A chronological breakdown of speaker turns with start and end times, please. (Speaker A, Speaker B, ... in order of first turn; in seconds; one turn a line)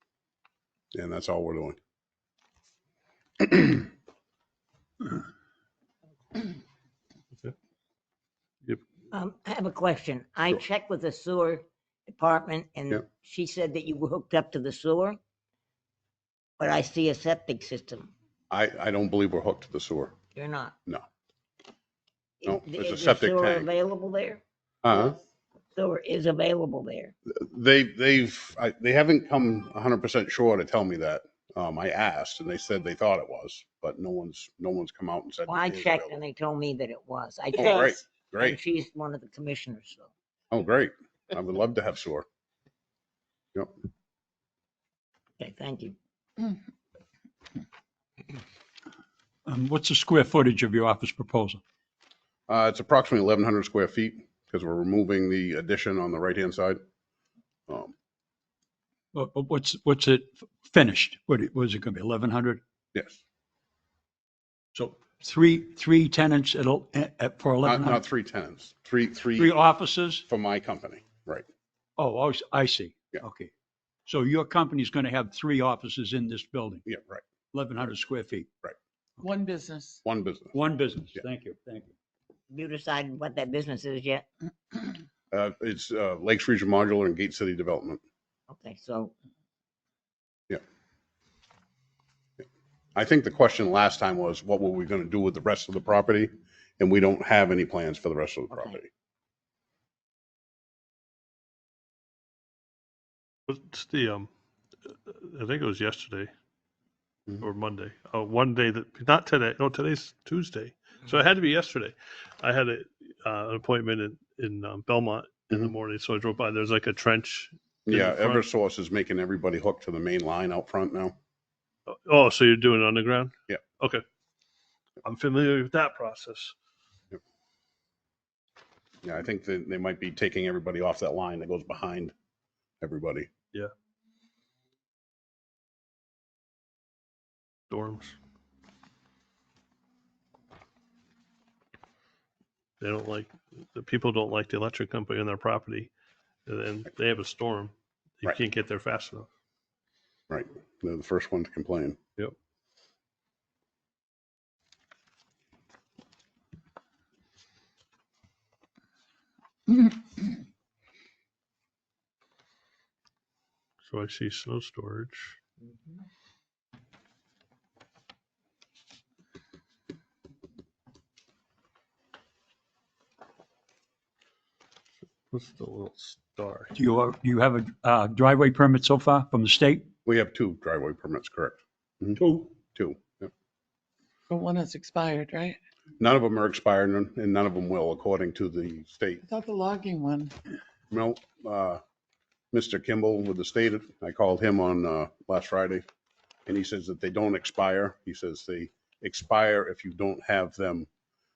Speaker A: 0.9-1.8
Speaker A: 3.4-3.8
Speaker B: 9.1-15.2
Speaker B: 16.6-18.1
Speaker A: 18.5-20.1
Speaker B: 20.3-20.8
Speaker B: 22.4-24.4
Speaker A: 22.5-23.7
Speaker A: 24.8-25.2
Speaker B: 25.8-27.1
Speaker A: 27.3-36.2
Speaker B: 35.5-37.7
Speaker A: 37.6-38.6
Speaker C: 37.6-38.0
Speaker B: 38.4-40.1
Speaker A: 40.5-42.3
Speaker B: 45.4-46.0
Speaker D: 49.5-51.6
Speaker A: 52.5-56.8
Speaker A: 57.7-57.9
Speaker D: 59.1-62.6
Speaker A: 62.9-63.2
Speaker D: 64.7-68.0
Speaker A: 67.6-69.6
Speaker D: 69.4-70.2
Speaker A: 70.3-71.5
Speaker D: 72.0-73.5
Speaker D: 74.1-76.9
Speaker A: 76.9-77.2
Speaker D: 77.5-78.5
Speaker C: 79.2-80.0
Speaker A: 80.0-80.5
Speaker D: 80.5-81.9
Speaker B: 82.5-84.3
Speaker A: 85.3-88.0
Speaker B: 88.5-89.1
Speaker A: 93.0-98.9
Speaker B: 98.5-98.8
Speaker E: 103.5-104.3
Speaker E: 104.9-106.3
Speaker E: 107.4-118.5
Speaker A: 117.9-121.2
Speaker E: 121.9-124.0
Speaker E: 125.0-126.5
Speaker A: 129.0-132.1
Speaker A: 132.8-133.3
Speaker E: 137.7-138.2
Speaker E: 142.8-145.9
Speaker E: 146.5-149.3
Speaker A: 150.3-152.0
Speaker E: 163.9-165.4
Speaker E: 175.3-176.7
Speaker D: 176.8-179.9
Speaker A: 180.1-182.2
Speaker D: 182.2-182.5
Speaker A: 182.7-183.3
Speaker C: 184.3-185.6
Speaker A: 186.0-189.2
Speaker C: 189.2-190.3
Speaker A: 190.9-191.8
Speaker A: 192.5-195.8
Speaker A: 196.5-200.9